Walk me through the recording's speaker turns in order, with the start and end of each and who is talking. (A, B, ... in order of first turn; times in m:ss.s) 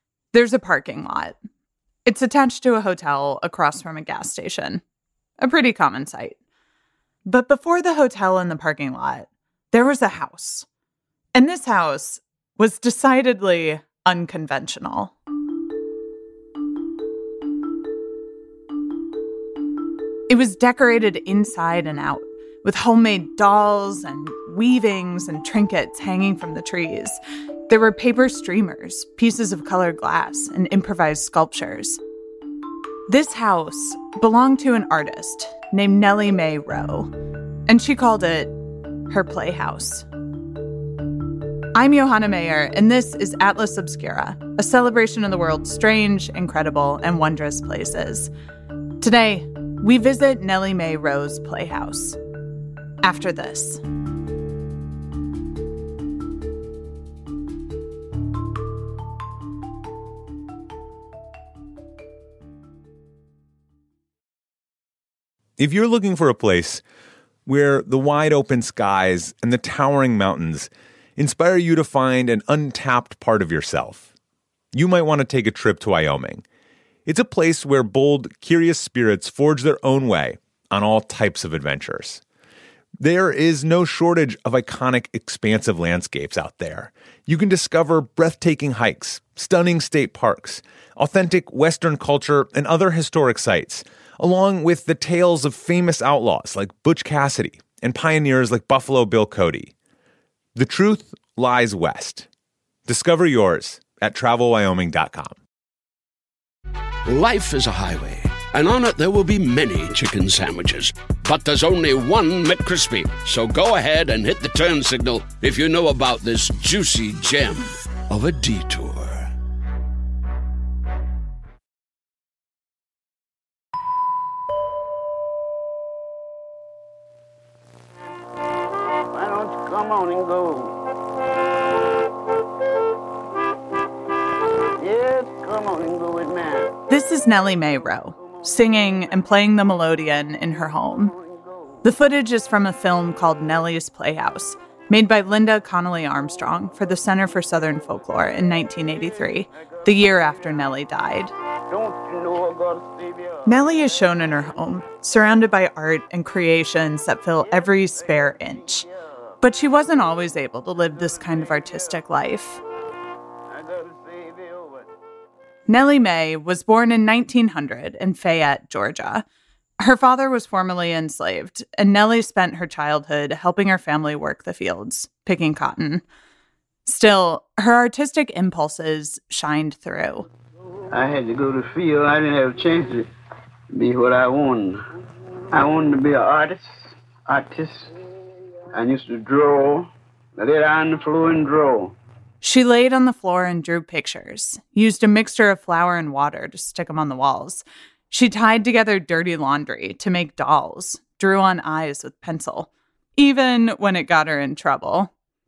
0:00.3-0:01.4 A
0:02.1-0:04.8 A
0:05.4-0:06.4 A
0:07.3-0:10.7 A
0:11.4-0:15.1 A
0:20.3-0:32.0 A
0:33.1-0:37.1 A
0:37.7-0:38.5 A
0:39.1-0:40.1 A
0:41.8-0:48.3 A
0:49.0-0:52.2 A
0:53.0-0:53.8 A
1:05.6-1:06.8 B
1:07.5-1:14.1 B
1:14.7-1:16.4 B
1:17.1-1:22.2 B
1:23.0-1:39.7 B
1:40.6-1:42.3 B
1:42.9-1:45.4 B
1:47.1-1:59.3 C
2:09.1-2:10.8 D
2:14.8-2:16.7 D
2:16.9-2:21.1 A
2:21.8-2:31.3 A
2:31.7-2:33.5 D
2:33.5-2:38.9 A
2:39.4-2:42.6 A
2:43.5-2:44.9 D
2:45.7-2:49.2 A
2:49.8-2:56.0 A
2:56.8-3:00.3 A
3:00.9-3:03.1 D
3:03.7-3:04.8 D
3:05.5-3:06.6 D
3:07.3-3:07.9 D
3:08.7-3:12.0 D
3:12.4-3:25.1 A